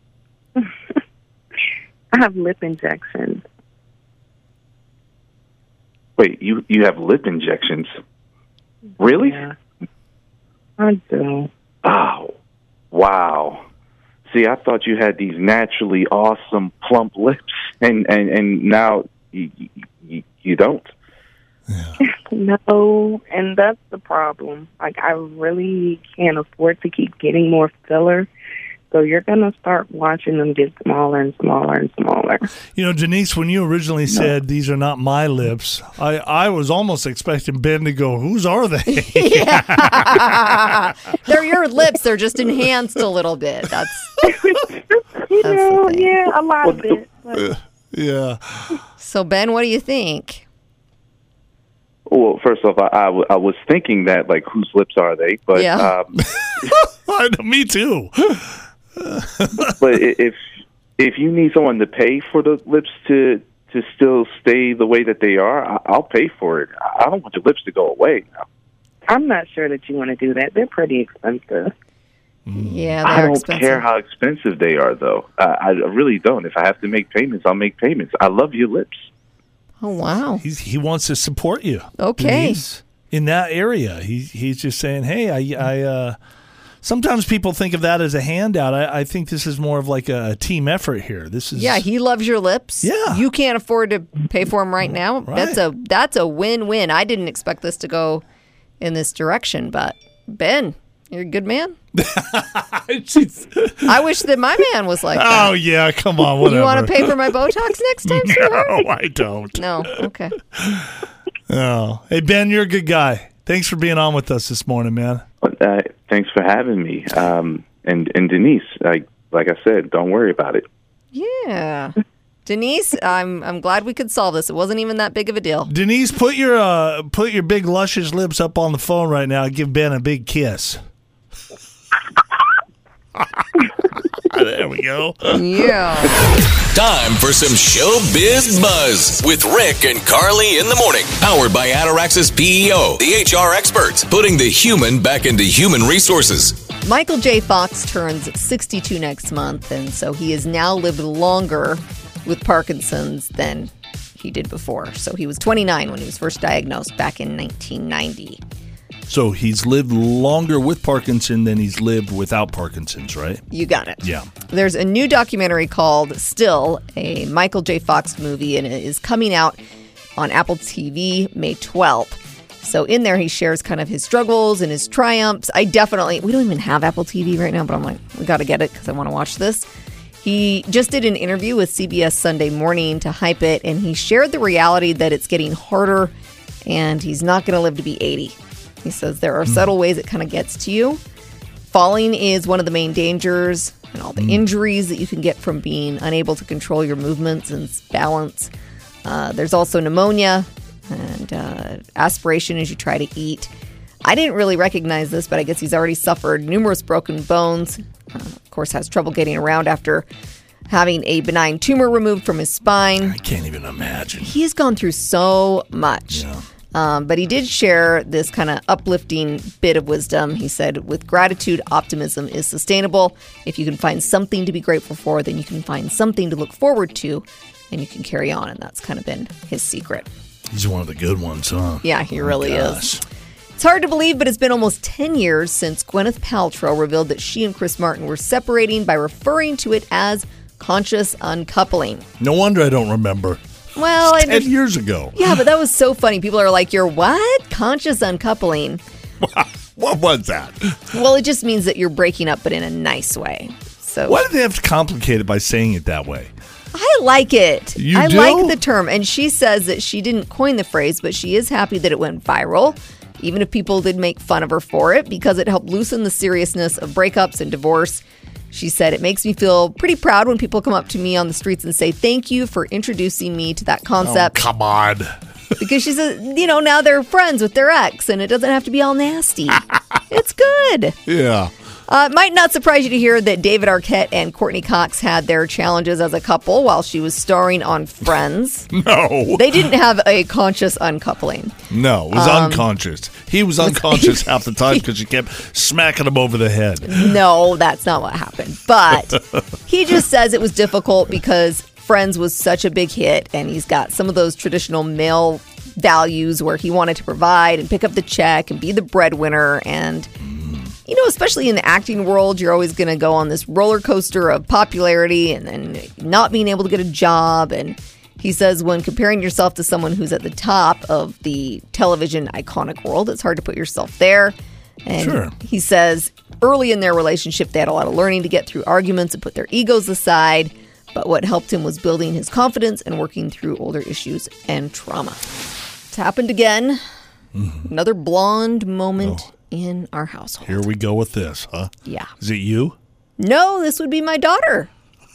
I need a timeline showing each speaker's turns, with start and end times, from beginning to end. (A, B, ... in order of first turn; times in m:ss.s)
0:02.1-0:03.4 A
0:06.2-0:07.9 B
0:09.0-0:09.4 B
0:09.0-0:09.5 A
0:10.8-0:11.5 A
0:11.8-0:12.3 B
0:12.9-0:13.6 B
0:14.3-0:20.9 B
0:21.7-0:22.0 C
0:22.0-0:28.3 A
0:28.9-0:32.5 A
0:32.7-0:40.9 C
0:38.9-0:44.3 D
0:44.2-0:47.5 A
0:45.4-0:46.1 D
0:46.6-0:47.0 B
0:47.3-0:48.8 C
0:49.0-0:50.4 D
0:52.1-0:56.7 B
0:55.5-0:55.9 D
0:56.2-0:59.8 C
0:59.6-1:00.4 B
1:01.0-1:08.4 B
1:09.1-1:11.7 A
1:12.4-1:13.0 C
1:12.6-1:13.8 D
1:13.0-1:19.0 B
1:19.8-1:20.4 D
1:20.4-1:26.2 C
1:22.0-1:22.6 D
1:26.8-1:31.8 C
1:31.5-1:38.2 D
1:32.8-1:33.2 C
1:35.2-1:35.6 C
1:38.8-1:41.8 D
1:41.9-1:44.0 C
1:43.8-1:45.6 D
1:45.1-1:47.5 C
1:46.4-1:48.9 D
1:48.0-1:55.2 C
1:49.5-1:50.4 D
1:55.4-2:00.6 B
2:01.1-2:05.7 D
2:05.7-2:10.8 C
2:13.2-2:13.5 C
2:14.1-2:15.6 C
2:15.3-2:16.2 D
2:16.7-2:26.6 E
2:26.8-2:38.4 D
2:39.1-2:43.4 C
2:43.5-2:49.6 D
2:44.0-2:44.3 C
2:50.2-2:59.6 D
3:00.2-3:06.1 D
3:06.6-3:11.0 D
3:09.4-3:09.7 C
3:11.7-3:18.5 D
3:14.2-3:14.4 C
3:19.0-3:23.5 D
3:24.0-3:30.0 D
3:30.7-3:33.2 D
3:33.0-3:34.3 C
3:34.2-3:50.1 D
3:36.1-3:36.4 C
3:50.5-3:53.0 C
3:51.8-3:52.8 D
3:53.6-4:02.0 D
4:02.2-4:03.4 C
4:03.8-4:04.5 D
4:04.0-4:05.4 C
4:05.1-4:08.8 D
4:09.2-4:10.8 C
4:10.9-4:14.2 D
4:14.1-4:16.3 C
4:16.7-4:34.5 D
4:17.8-4:18.6 C
4:34.0-4:35.1 C
4:35.6-4:41.0 D
4:41.0-4:41.5 C
4:41.9-4:48.7 D
4:48.7-4:49.7 C
4:49.3-4:51.6 D
4:51.7-4:57.2 C
4:52.1-4:52.7 D
4:53.6-4:54.8 D
4:56.8-5:10.1 D
5:10.2-5:10.7 C
5:10.8-5:35.2 D
5:25.0-5:25.3 C
5:35.9-5:36.8 D
5:37.3-5:37.7 C
5:37.6-5:40.6 D
5:40.4-5:42.8 C
5:41.8-5:42.1 D
5:43.2-5:44.7 D